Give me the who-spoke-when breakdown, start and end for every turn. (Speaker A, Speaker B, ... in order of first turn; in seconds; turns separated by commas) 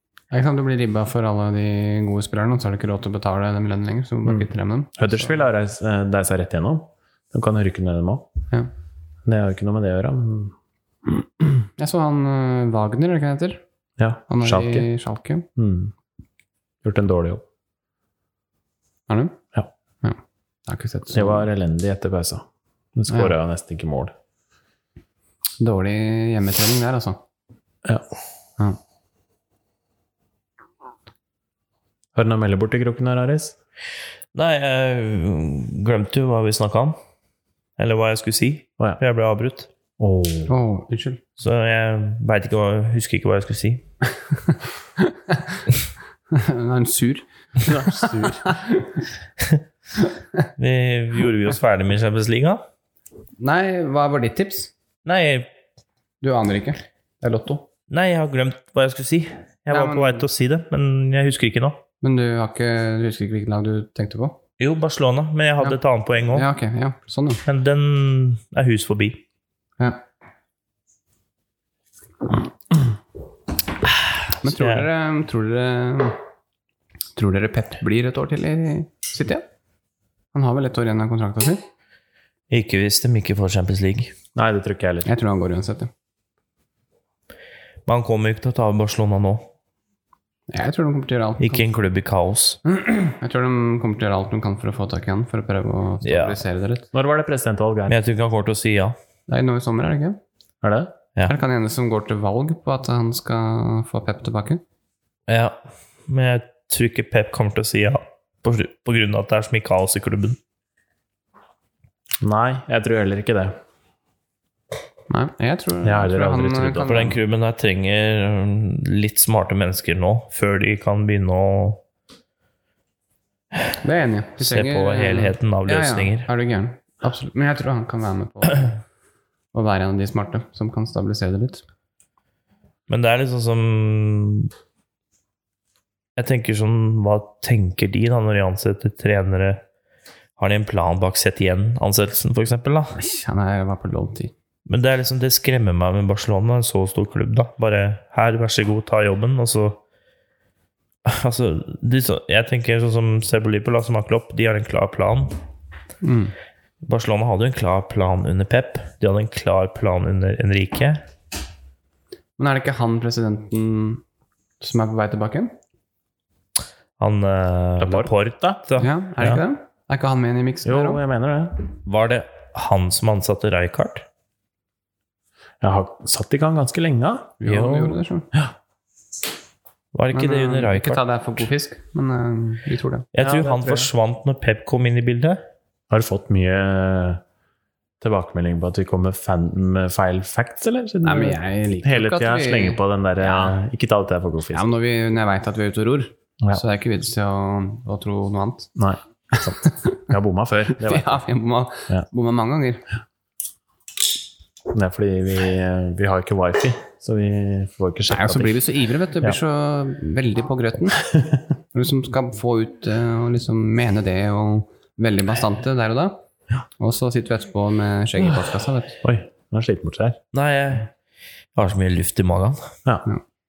Speaker A: 0.3-5.3, Speaker B: 5.0-8.3, Speaker B: 9.2-10.5, Speaker A: 11.8-13.6, Speaker B: 14.0-14.9, Speaker A: 14.3-15.5, Speaker B: 15.6-15.9, Speaker B: 16.8-17.4, Speaker A: 19.1-19.4, Speaker A: 20.0-21.5, Speaker B: 21.1-24.1, Speaker A: 23.1-23.3, Speaker A: 25.6-27.2, Speaker B: 32.1-33.6, Speaker C: 34.3-37.0, Speaker C: 37.8-39.7, Speaker B: 40.0-40.5, Speaker A: 40.5-41.2, Speaker C: 41.4-43.8, Speaker A: 45.0-45.6, Speaker A: 46.3-49.0, Speaker B: 47.6-48.5, Speaker C: 50.6-52.6, Speaker A: 53.4-54.7, Speaker C: 55.0-55.5, Speaker A: 56.2-57.7, Speaker C: 57.9-61.8, Speaker A: 59.7-60.3, Speaker A: 62.0-64.4, Speaker C: 64.6-66.5, Speaker A: 66.3-67.4, Speaker C: 67.5-69.2, Speaker A: 74.4-76.2, Speaker C: 74.5-74.9, Speaker A: 77.2-79.4, Speaker A: 80.3-81.6, Speaker C: 82.5-84.1, Speaker B: 84.3-85.1, Speaker A: 85.0-85.9, Speaker C: 87.9-89.5, Speaker A: 90.5-91.6, Speaker C: 91.4-92.6, Speaker A: 92.6-96.9, Speaker C: 96.0-96.4, Speaker B: 96.9-98.0, Speaker C: 97.9-99.0, Speaker A: 99.3-100.2, Speaker B: 100.6-101.0, Speaker A: 101.2-104.6, Speaker C: 105.3-110.4, Speaker B: 112.2-113.6, Speaker A: 115.1-117.2, Speaker B: 115.8-117.1, Speaker C: 116.8-121.8, Speaker A: 123.8-128.8, Speaker C: 124.4-126.3, Speaker A: 129.5-131.6, Speaker C: 132.9-134.5, Speaker C: 136.2-139.6, Speaker C: 140.4-143.0, Speaker A: 142.9-144.3, Speaker C: 144.7-149.8, Speaker C: 151.1-155.3, Speaker A: 156.0-156.3, Speaker C: 156.8-161.0, Speaker A: 162.4-164.0, Speaker A: 164.6-165.5, Speaker C: 167.0-168.9, Speaker B: 167.8-168.6, Speaker A: 168.8-171.0, Speaker B: 170.6-171.6, Speaker C: 171.9-174.1, Speaker B: 175.6-177.4, Speaker A: 177.4-178.3, Speaker C: 177.5-178.0, Speaker C: 179.9-181.0, Speaker A: 180.1-183.1, Speaker C: 183.1-185.4, Speaker B: 183.2-183.9, Speaker B: 185.9-187.2, Speaker B: 188.0-194.7, Speaker A: 191.0-193.6, Speaker A: 194.5-198.7, Speaker B: 198.8-201.1, Speaker A: 199.3-200.0, Speaker A: 200.8-202.9, Speaker B: 204.7-208.6, Speaker A: 208.1-211.0, Speaker A: 211.7-216.2, Speaker A: 216.8-219.0, Speaker B: 219.0-220.2, Speaker C: 220.3-220.9, Speaker C: 221.6-222.7